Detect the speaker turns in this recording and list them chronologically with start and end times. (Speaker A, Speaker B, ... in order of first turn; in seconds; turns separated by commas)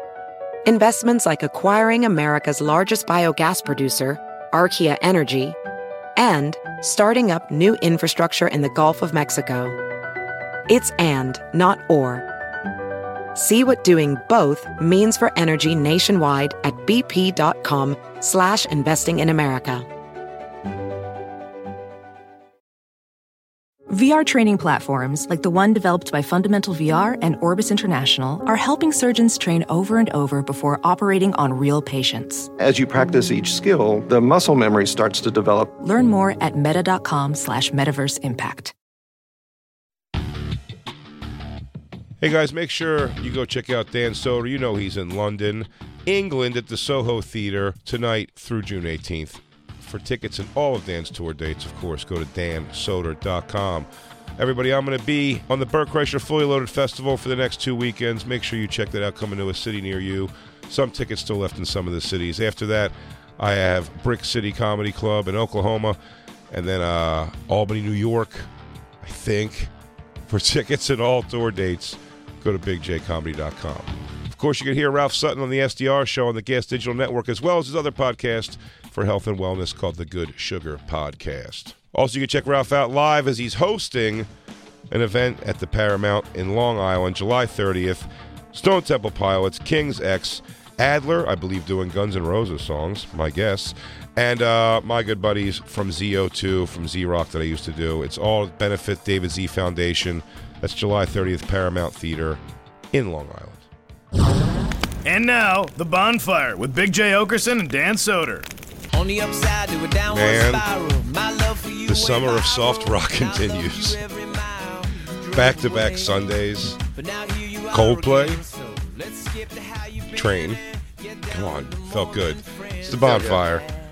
Speaker A: 0.7-5.6, Speaker A: 6.2-9.8, Speaker A: 10.7-12.2, Speaker A: 13.3-19.9, Speaker B: 23.9-32.5, Speaker C: 32.6-35.7, Speaker B: 35.8-38.7, Speaker D: 42.2-66.0, Speaker D: 66.5-68.5, Speaker D: 69.0-69.7, Speaker D: 70.3-84.3, Speaker D: 84.9-102.4, Speaker D: 102.9-103.7, Speaker E: 105.0-108.5, Speaker F: 108.9-116.2, Speaker D: 110.1-110.7, Speaker D: 111.9-114.0, Speaker D: 115.3-116.8, Speaker F: 116.9-123.7, Speaker D: 117.7-118.4, Speaker D: 120.1-120.6, Speaker D: 121.3-123.6